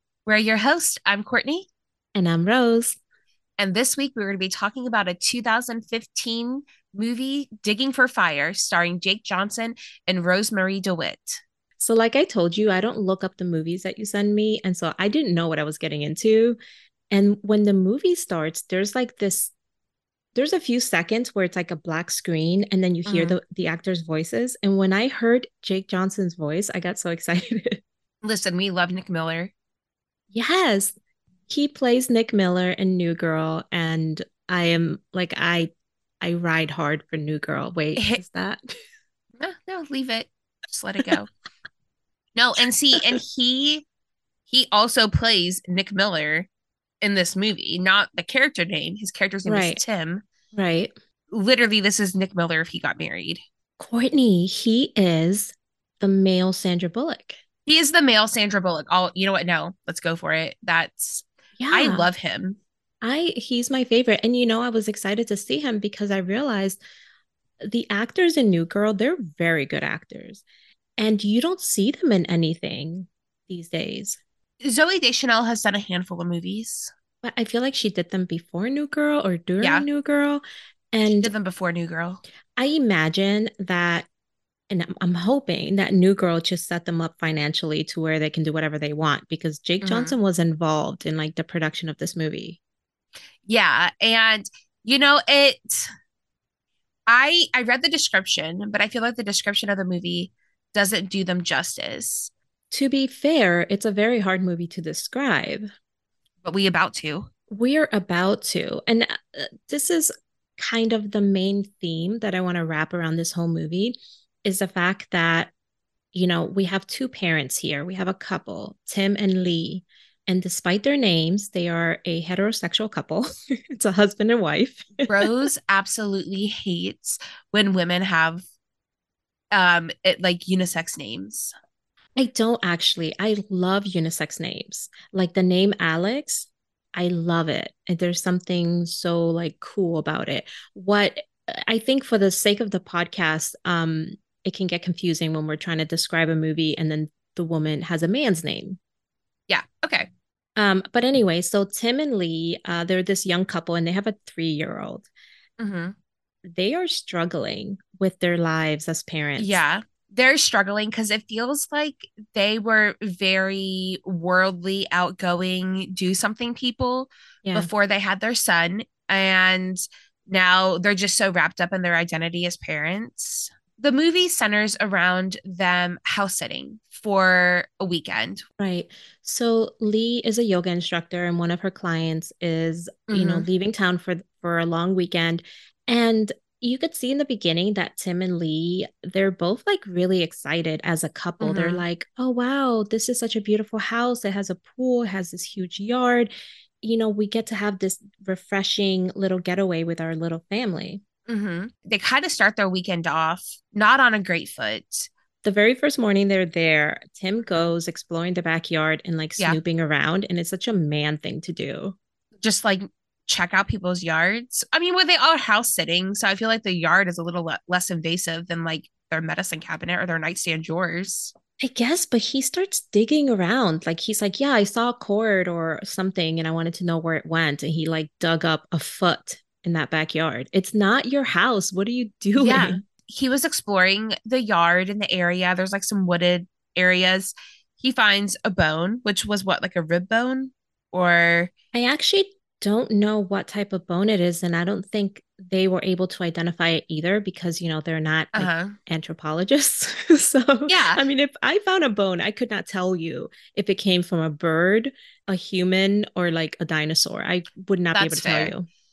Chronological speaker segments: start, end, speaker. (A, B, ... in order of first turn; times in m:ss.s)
0:00.2-0:01.7 A
0:02.1-0:03.0 B
0:03.6-0:11.4 A
0:11.8-0:16.6 B
0:17.1-0:19.5 B
0:20.3-0:27.8 B
0:23.0-0:23.4 A
0:28.2-0:29.5 A
0:30.3-0:30.9 B
0:31.5-0:35.7 B
0:36.2-0:38.6 B
0:38.0-0:38.2 A
0:39.4-0:41.3 A
0:42.3-0:43.8 A
0:44.5-0:46.5 A
0:47.0-0:50.2 A
0:49.4-0:49.8 B
0:50.5-0:50.9 B
0:51.3-0:53.4 A
0:53.8-0:57.4 B
0:57.7-1:02.6 A
1:01.6-1:02.1 B
1:03.0-1:06.8 B
1:07.6-1:10.4 B
1:11.0-1:14.2 B
1:14.6-1:16.9 A
1:17.2-1:21.3 B
1:19.6-1:19.9 A
1:21.0-1:22.2 A
1:22.6-1:24.1 B
1:24.7-1:32.6 B
1:29.8-1:30.2 A
1:33.4-1:35.9 A
1:37.1-1:42.3 A
1:42.7-1:45.7 B
1:46.4-1:47.3 A
1:47.5-1:55.5 B
1:56.1-2:05.1 B
2:05.0-2:08.4 A
2:09.5-2:11.5 A
2:12.2-2:28.8 B
2:29.5-2:30.1 A
2:30.6-2:35.1 B
2:35.6-2:35.9 A
2:36.4-2:39.6 B
2:39.4-2:58.4 A
2:58.6-3:21.0 B
3:03.1-3:03.5 A
3:11.4-3:11.8 A
3:21.3-3:25.1 A
3:25.4-3:32.0 B
3:32.4-3:41.3 A
3:41.6-3:52.8 B
3:52.3-4:01.5 A
4:01.7-4:18.7 B
4:08.3-4:08.8 A
4:10.7-4:11.0 A
4:17.9-4:18.5 A